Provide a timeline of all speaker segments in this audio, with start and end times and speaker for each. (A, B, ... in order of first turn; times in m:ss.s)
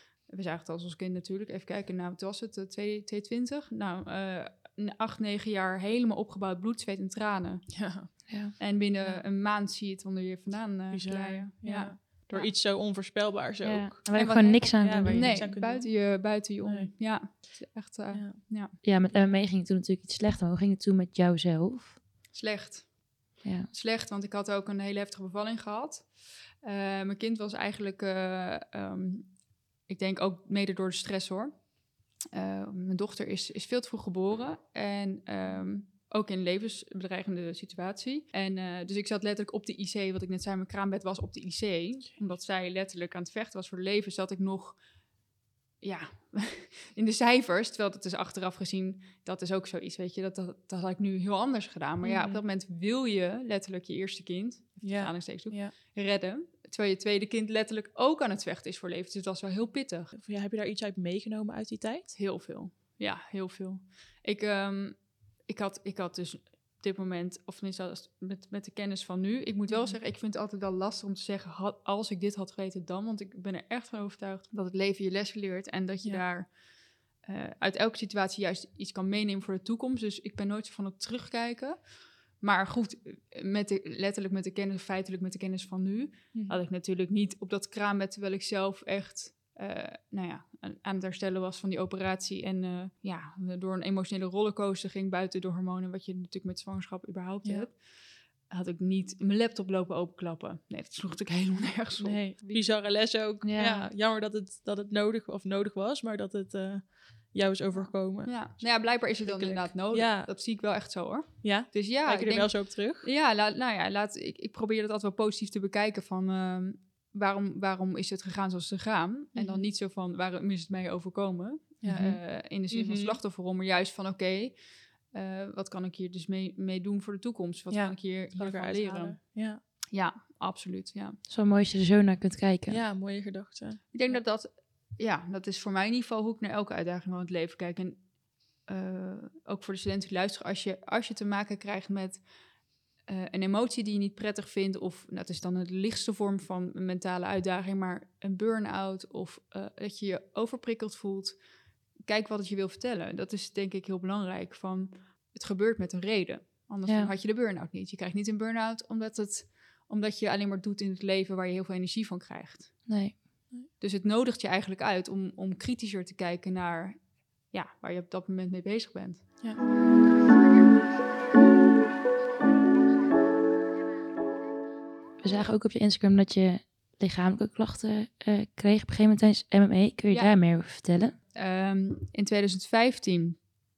0:00.2-0:12.5 A
0:07.7-0:09.2 B
0:08.3-0:08.6 C
0:10.9-0:17.6 B
0:13.6-0:15.5 C
0:14.2-0:18.8 A
0:18.1-0:18.4 B
0:18.8-0:22.0 C
0:19.1-0:19.4 B
0:22.3-0:44.8 A
0:23.4-0:23.7 C
0:45.8-1:00.1 A
0:52.0-0:52.4 B
0:54.8-0:55.8 B
1:00.1-1:02.1 B
1:02.1-1:16.6 A
1:09.7-1:10.0 B
1:17.2-1:42.7 A
1:26.3-1:26.6 B
1:37.4-1:37.7 B
1:42.0-1:50.3 B
1:43.4-1:43.9 C
1:47.8-2:11.2 A
1:51.4-1:53.1 B
1:59.3-1:59.7 B
2:01.8-2:03.2 B
2:01.9-2:02.2 C
2:07.7-2:09.6 B
2:11.3-2:12.8 C
2:12.7-2:14.1 B
2:13.9-2:22.3 A
2:23.0-2:31.4 A
2:32.0-2:42.9 A
2:42.9-2:43.5 C
2:43.8-2:49.4 A
2:55.2-3:01.2 C
3:00.1-3:00.4 A
3:01.3-3:03.5 A